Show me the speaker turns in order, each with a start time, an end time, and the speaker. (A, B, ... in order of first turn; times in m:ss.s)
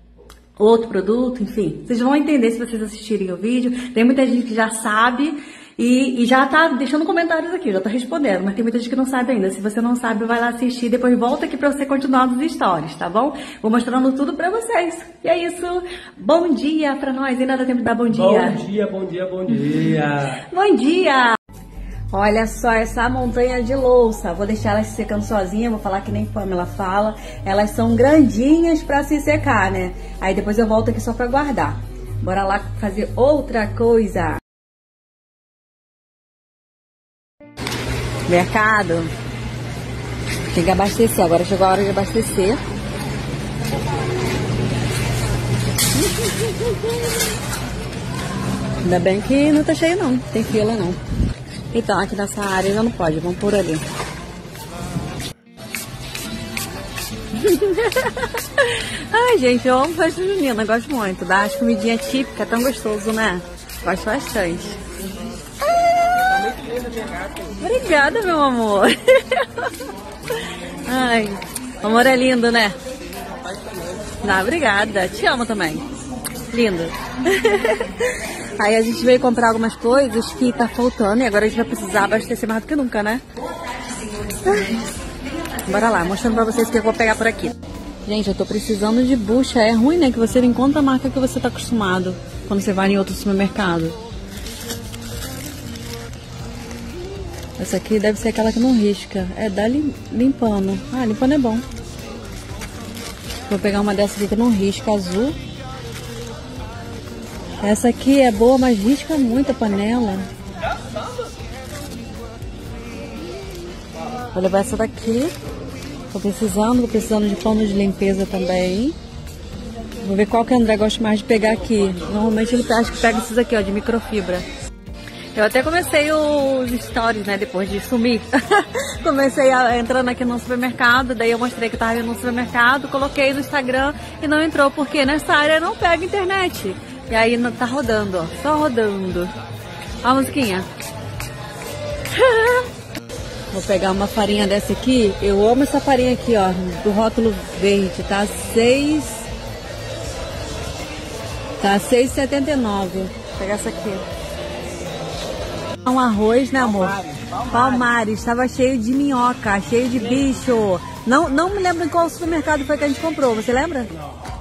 0:00.6-0:18.6 A
0:18.1-0:20.4 B
0:20.3-0:21.4 A
0:22.1-0:34.4 A
0:38.3-0:39.1 A
0:40.5-0:42.6 A
0:46.1-0:46.8 A
0:48.8-0:51.0 A
0:51.7-0:53.8 A
0:57.3-1:04.8 A
1:05.6-1:06.3 A
1:06.2-1:07.6 B
1:07.6-1:09.8 A
1:10.3-1:12.8 A
1:13.2-1:14.2 B
1:14.2-1:15.9 A
1:16.4-1:23.2 A
1:24.2-1:24.9 A
1:25.6-1:34.0 A
1:37.6-1:41.6 A
1:43.5-1:45.4 A
1:47.6-1:50.3 A
1:54.3-1:55.3 A
1:56.1-1:59.0 A
2:00.0-2:04.4 A
2:05.4-2:19.3 A
2:20.0-2:20.7 A
2:22.1-2:22.7 A
2:23.5-2:29.3 A
2:31.6-2:34.0 A
2:35.8-2:43.9 A
2:36.8-2:37.6 B